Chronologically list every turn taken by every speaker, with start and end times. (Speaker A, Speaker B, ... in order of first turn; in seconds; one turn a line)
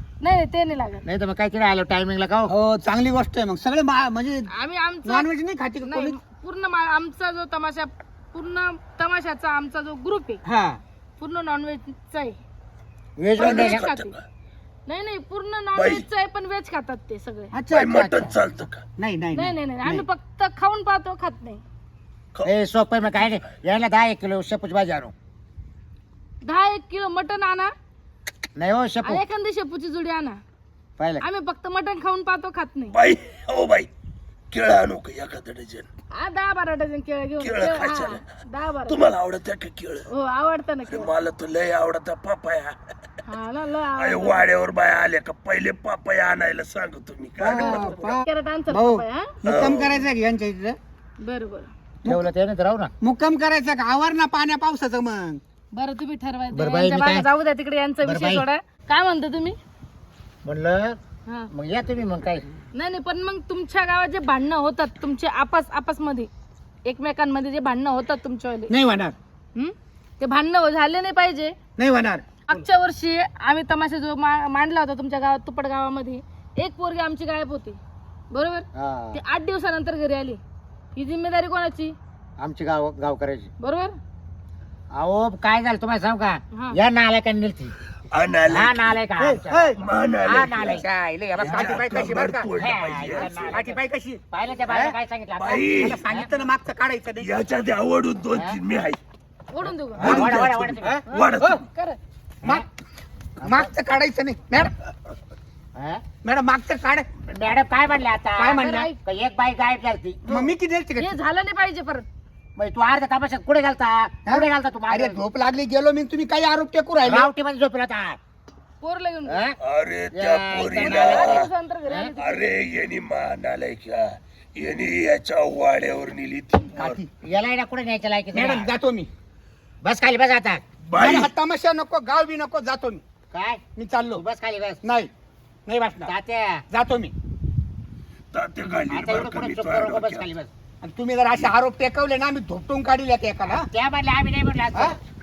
Speaker A: 0.2-1.1
Speaker B: 1.0-2.5
Speaker C: 2.5-4.5
Speaker A: 4.5-5.3
Speaker C: 5.0-6.2
Speaker A: 5.8-10.4
Speaker C: 10.4-10.8
Speaker A: 11.2-12.4
Speaker B: 13.2-13.9
Speaker A: 13.4-14.2
Speaker D: 13.4-14.2
Speaker A: 14.9-17.5
Speaker D: 15.8-16.0
Speaker C: 17.5-18.4
Speaker D: 17.7-18.8
Speaker C: 19.0-20.0
Speaker A: 19.3-21.6
Speaker B: 22.4-25.1
Speaker A: 26.4-27.7
Speaker B: 28.6-29.2
Speaker A: 29.0-30.4
Speaker B: 31.0-31.2
Speaker A: 31.2-33.0
Speaker D: 32.9-33.9
Speaker D: 34.5-35.9
Speaker A: 36.1-39.0
Speaker D: 37.4-38.2
Speaker D: 38.9-40.1
Speaker A: 40.1-41.1
Speaker D: 40.9-42.8
Speaker A: 43.2-44.5
Speaker D: 44.0-48.1
Speaker C: 47.4-50.8
Speaker A: 47.5-49.3
Speaker D: 49.4-50.1
Speaker A: 51.2-51.7
Speaker B: 52.0-52.9
Speaker C: 53.0-55.4
Speaker A: 55.7-59.6
Speaker B: 56.5-57.3
Speaker B: 58.0-58.4
Speaker B: 60.4-61.0
Speaker B: 61.5-62.4
Speaker A: 62.7-66.3
Speaker A: 66.8-68.7
Speaker C: 68.7-69.1
Speaker A: 69.5-71.5
Speaker C: 71.8-72.6
Speaker A: 72.5-77.8
Speaker A: 78.3-80.4
Speaker B: 78.7-79.2
Speaker A: 80.9-81.9
Speaker B: 82.4-83.5
Speaker A: 83.6-84.0
Speaker B: 84.9-87.7
Speaker A: 86.5-86.8
Speaker D: 88.1-89.0
Speaker B: 88.5-90.9
Speaker C: 89.2-89.8
Speaker D: 89.8-90.8
Speaker C: 90.6-92.5
Speaker D: 91.4-93.6
Speaker B: 92.5-93.8
Speaker C: 93.2-95.0
Speaker B: 94.3-96.3
Speaker D: 95.4-96.0
Speaker C: 95.7-97.3
Speaker D: 97.2-99.0
Speaker A: 99.5-100.0
Speaker B: 99.9-101.0
Speaker C: 100.0-101.6
Speaker D: 100.0-101.6
Speaker A: 101.1-102.0
Speaker B: 103.4-103.7
Speaker C: 103.4-104.7
Speaker B: 105.7-106.0
Speaker C: 106.2-107.1
Speaker B: 107.3-110.5
Speaker C: 108.4-108.9
Speaker A: 108.5-109.0
Speaker C: 110.2-111.2
Speaker A: 111.0-112.1
Speaker B: 112.6-115.2
Speaker C: 114.2-117.3
Speaker B: 117.0-118.2
Speaker A: 118.8-119.5
Speaker B: 119.3-119.6
Speaker D: 119.6-121.5
Speaker B: 120.1-122.1
Speaker A: 120.8-122.5
Speaker D: 122.2-127.0
Speaker C: 126.7-127.1
Speaker B: 127.2-128.7
Speaker C: 128.3-129.1
Speaker B: 129.8-130.6
Speaker D: 130.8-131.3
Speaker C: 130.9-133.0
Speaker B: 133.3-133.6
Speaker C: 133.7-134.2
Speaker B: 134.1-134.8
Speaker C: 134.8-135.1
Speaker C: 135.7-136.1
Speaker B: 136.1-136.6
Speaker C: 136.7-137.1
Speaker D: 138.3-140.3
Speaker B: 138.9-140.5
Speaker C: 140.8-143.7
Speaker B: 143.5-145.0